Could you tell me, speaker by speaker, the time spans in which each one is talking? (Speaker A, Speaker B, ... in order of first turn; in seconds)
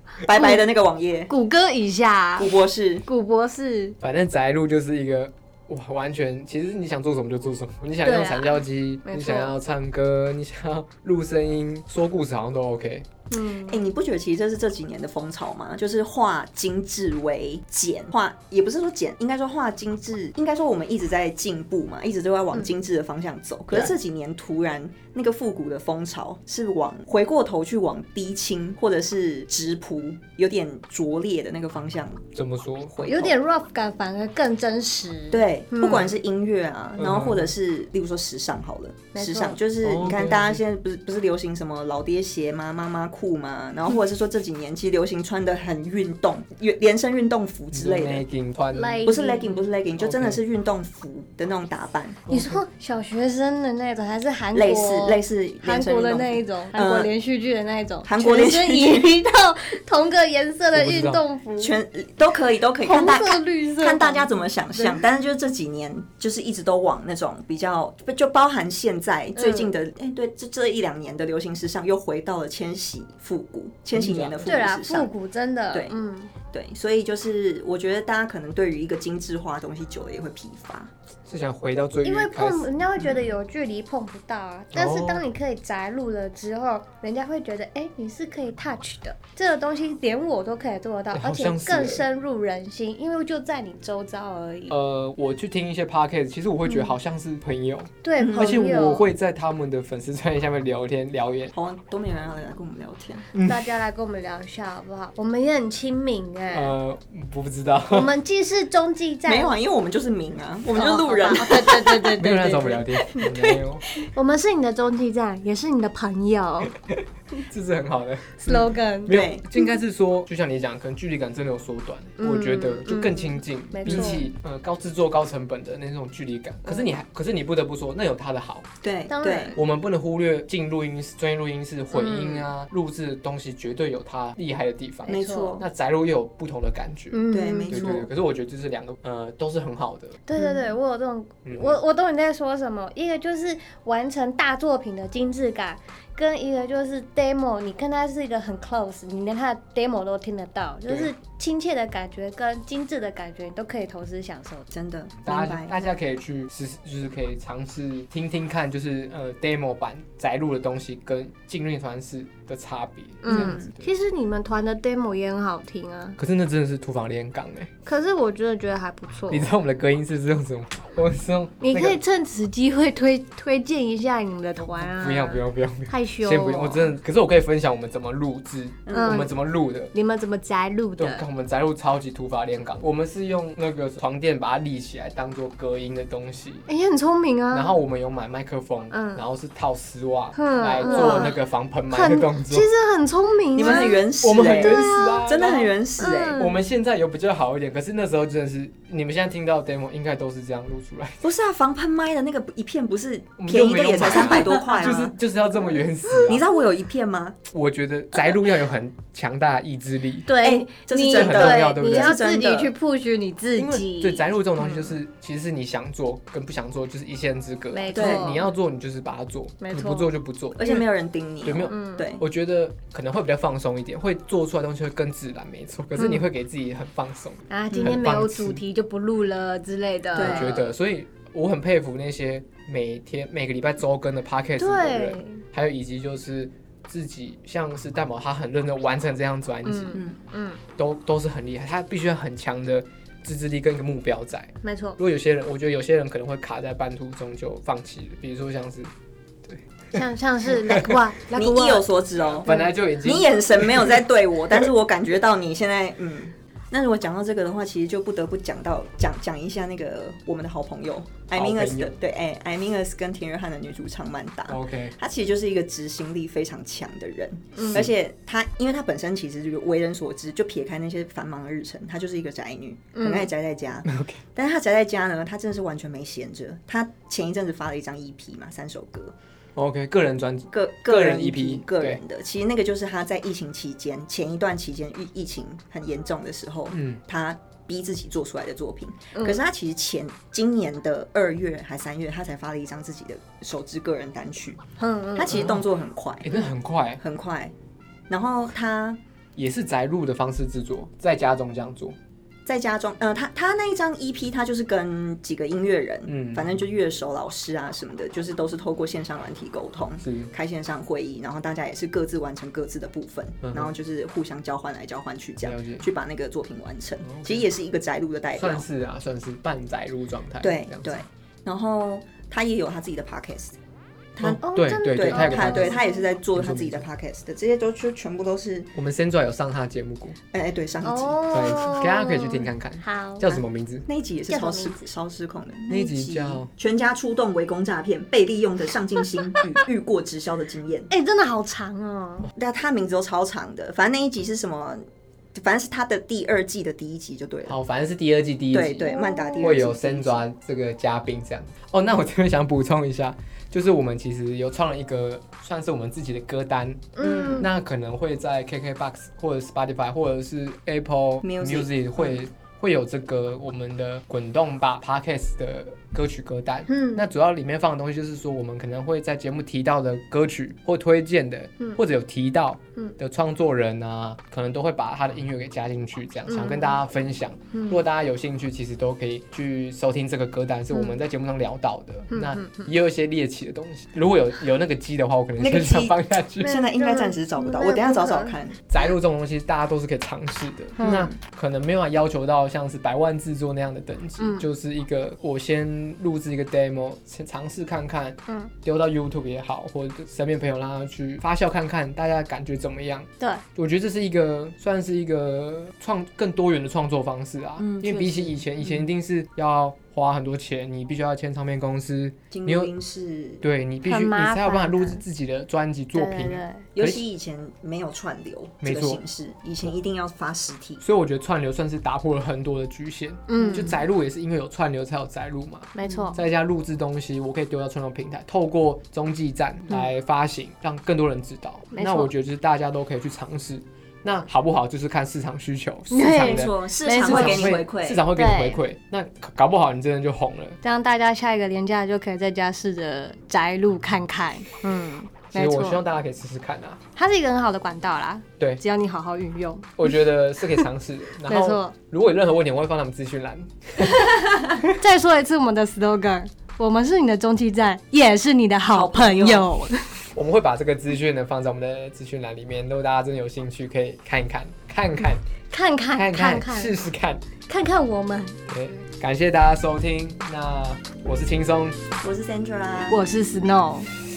Speaker A: 0.2-1.3, 2.4-3.0, 13.6-32.3, 32.9-33.4, 35.3-48.2, 49.0-52.3, 54.5-57.1, 58.0-59.1, 61.6-75.1, 76.5-80.9, 98.2-98.6, 101.5-103.3, 109.2-112.2, 119.1-119.5, 123.8-124.2, 128.8-129.6, 135.1-135.6, 137.3-138.1, 140.3-140.7, 154.7-155.8, 163.3-163.7, 178.8-179.2, 190.8-191.3, 193.6-196.5, 201.2-205.2, 206.2-207.4, 210.4-212.7, 217.9-218.4, 220.5-222.2, 227.7-228.0, 230.1-230.6, 251.3-279.1, 280.5-294.6, 295.1-297.5, 298.1-299.0, 302.4-318.7, 320.4-323.6, 324.1-328.7, 330.3-331.6, 333.2-340.9, 342.3-347.6, 348.5-350.2, 357.0-357.5, 361.2-362.2, 385.4-388.8, 390.8-391.1, 407.6-408.8, 412.3-413.4, 416.7-420.8, 423.4-423.7, 425.8-426.1, 436.1-438.1, 458.7-459.5, 472.0-473.0
Speaker B: 0.3-0.6, 1.3-2.5, 3.0-4.0, 8.0-9.5, 13.3-13.8, 33.0-36.2, 39.1-39.6, 48.7-49.7, 52.3-61.8, 62.8-65.0, 69.3-69.7, 74.5-76.3, 82.0-94.7, 96.7-96.9, 98.0-99.1, 103.4-106.7, 107.9-109.5, 110.7-113.3, 114.0-116.7, 118.5-119.1, 122.2-124.3, 129.1-129.6, 131.9-132.5, 135.1-135.6, 137.1-138.1, 140.3-154.7, 163.2-166.2, 167.8-169.5, 171.6-176.9, 178.9-179.3, 179.9-181.2, 186.7-187.8, 188.9-189.2, 190.3-191.4, 191.9-195.3, 196.0-196.6, 204.1-204.7, 208.1-208.4, 210.2-214.9, 217.7-218.5, 219.6-220.1, 221.7-222.1, 225.9-226.2, 227.5-230.7, 234.6-235.4, 239.6-240.6, 244.6-245.0, 249.9-251.9, 252.4-252.7, 272.9-273.3, 289.1-289.4, 294.8-295.6, 324.4-326.0, 330.8-333.2, 334.3-334.8, 340.9-342.3, 348.8-349.6, 357.0-357.5, 366.7-367.0, 376.3-376.8, 377.5-377.8, 380.7-381.0, 382.1-382.7, 386.4-388.4, 390.8-391.1, 394.2-394.4, 413.9-415.0, 415.9-416.6, 423.3-423.8, 425.7-426.2, 431.7-432.1, 435.9-438.6, 440.6-445.8, 446.9-449.9, 451.2-451.7, 454.6-459.8, 465.5-466.7, 467.4-468.4, 472.9-473.9
Speaker C: 4.0-13.1, 32.3-33.0, 37.0-37.5, 39.8-40.6, 47.7-49.1, 50.0-50.4, 52.3-52.6, 60.7-61.2, 73.9-74.5, 81.2-83.1, 84.7-85.2, 91.1-92.0, 94.7-101.5, 103.3-103.7, 106.5-108.1, 112.2-113.9, 116.9-128.7, 129.5-140.2, 141.4-141.8, 150.9-151.1, 155.2-163.9, 166.2-167.7, 169.3-172.0, 174.6-179.9, 181.0-186.7, 187.5-192.7, 193.6-195.7, 196.3-201.2, 203.4-206.4, 207.5-210.3, 211.1-212.2, 213.6-220.8, 221.4-228.6, 230.2-240.0, 240.8-248.9, 249.4-249.9, 250.5-251.0, 252.2-254.0, 261.3-261.9, 264.5-264.9, 273.9-274.2, 279.6-282.0, 286.7-287.0, 295.3-295.6, 296.2-297.0, 299.4-301.9, 306.1-306.5, 310.0-310.3, 313.4-313.7, 315.4-315.8, 317.0-317.5, 318.3-321.0, 324.2-325.8, 326.3-326.8, 328.7-330.2, 331.3-333.9, 335.7-336.5, 347.5-386.6, 388.7-412.7, 413.4-417.0, 418.6-419.0, 420.8-440.6, 445.3-446.8, 449.8-454.7, 460.1-465.2, 466.0-467.2, 468.5-471.8